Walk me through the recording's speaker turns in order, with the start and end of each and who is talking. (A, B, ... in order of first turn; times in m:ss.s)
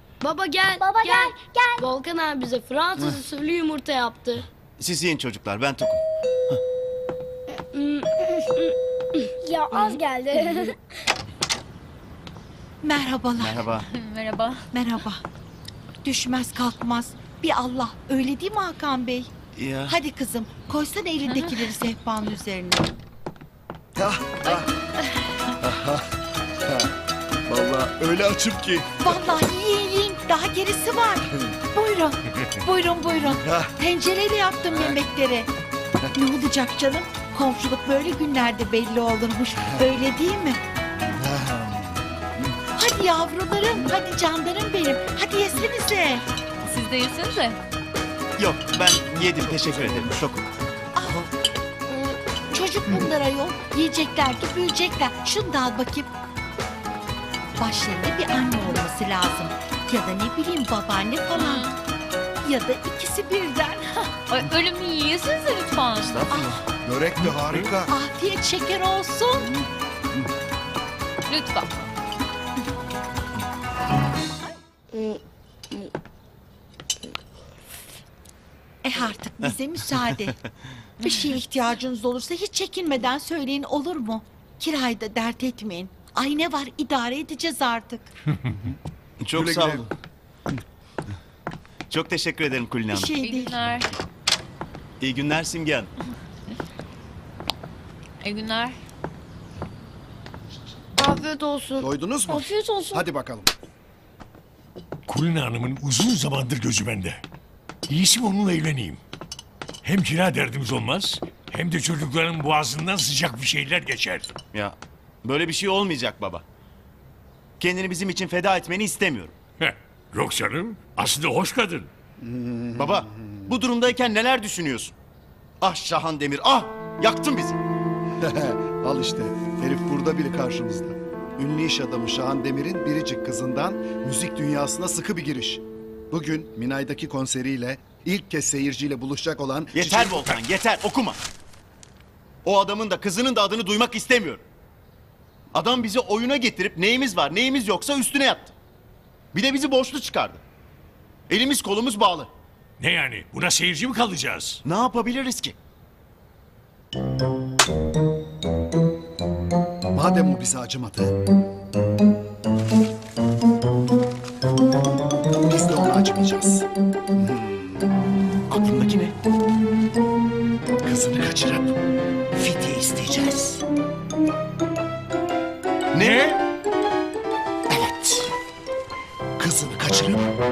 0:00.2-0:04.5 A
0:00.8-0:01.9 B
0:04.8-0:06.6 C
0:07.7-0:08.7 A
0:09.4-0:10.8 B
0:09.7-0:10.5 A
0:12.8-0:13.7 D
0:13.4-0:13.9 C
0:13.9-0:14.6 E
0:14.7-0:15.2 D
0:16.0-0:19.3 D
0:19.6-0:20.0 C
0:19.9-0:22.9 D
0:21.3-0:21.6 E
0:24.0-0:24.7 F
0:25.6-0:26.1 F
0:27.5-0:29.4 F
0:29.0-0:35.5 D
0:33.4-0:33.8 F
0:34.7-0:35.0 F
0:36.1-0:40.6 D
0:39.6-0:39.9 F
0:41.0-0:42.4 F
0:42.8-0:46.2 D
0:46.6-0:47.6 E
0:48.4-0:50.5 C
0:49.2-0:50.1 F
0:51.0-0:51.3 D
0:51.9-0:52.2 A
0:52.5-0:56.1 D
0:57.6-1:01.8 D
1:01.3-1:01.8 E
1:02.4-1:04.2 D
1:04.3-1:06.2 E
1:06.0-1:06.4 C
1:06.3-1:06.6 D
1:06.3-1:07.9 F
1:07.2-1:07.7 G
1:07.9-1:09.5 D
1:11.3-1:11.7 E
1:14.9-1:15.9 A
1:18.8-1:20.4 D
1:21.0-1:28.1 D
1:28.5-1:28.8 F
1:29.2-1:29.9 C
1:29.3-1:29.9 F
1:31.9-1:33.1 C
1:32.9-1:33.5 D
1:33.2-1:33.9 E
1:35.0-1:35.9 C
1:38.2-1:38.8 E
1:41.0-1:43.0 A
1:41.8-1:43.5 F
1:45.1-1:47.2 G
1:47.9-1:49.0 G
1:49.8-1:54.3 G
1:54.5-1:56.4 C
1:57.6-1:59.4 C
1:59.6-2:01.9 G
2:02.2-2:03.5 F
2:02.8-2:04.9 C
2:05.6-2:07.6 C
2:08.2-2:20.4 F
2:19.7-2:21.2 C
2:22.4-2:24.4 C
2:25.5-2:28.5 C
2:29.3-2:30.4 C
2:31.3-2:32.3 C
2:32.8-2:34.6 G
2:34.6-2:35.6 C
2:39.9-2:41.2 F
2:45.5-2:47.9 F
2:48.5-2:49.1 C
2:50.8-2:51.8 F
2:52.3-2:53.6 F
2:55.9-2:56.4 C
2:56.0-2:56.4 G
2:57.7-2:58.3 F
2:59.4-3:00.3 F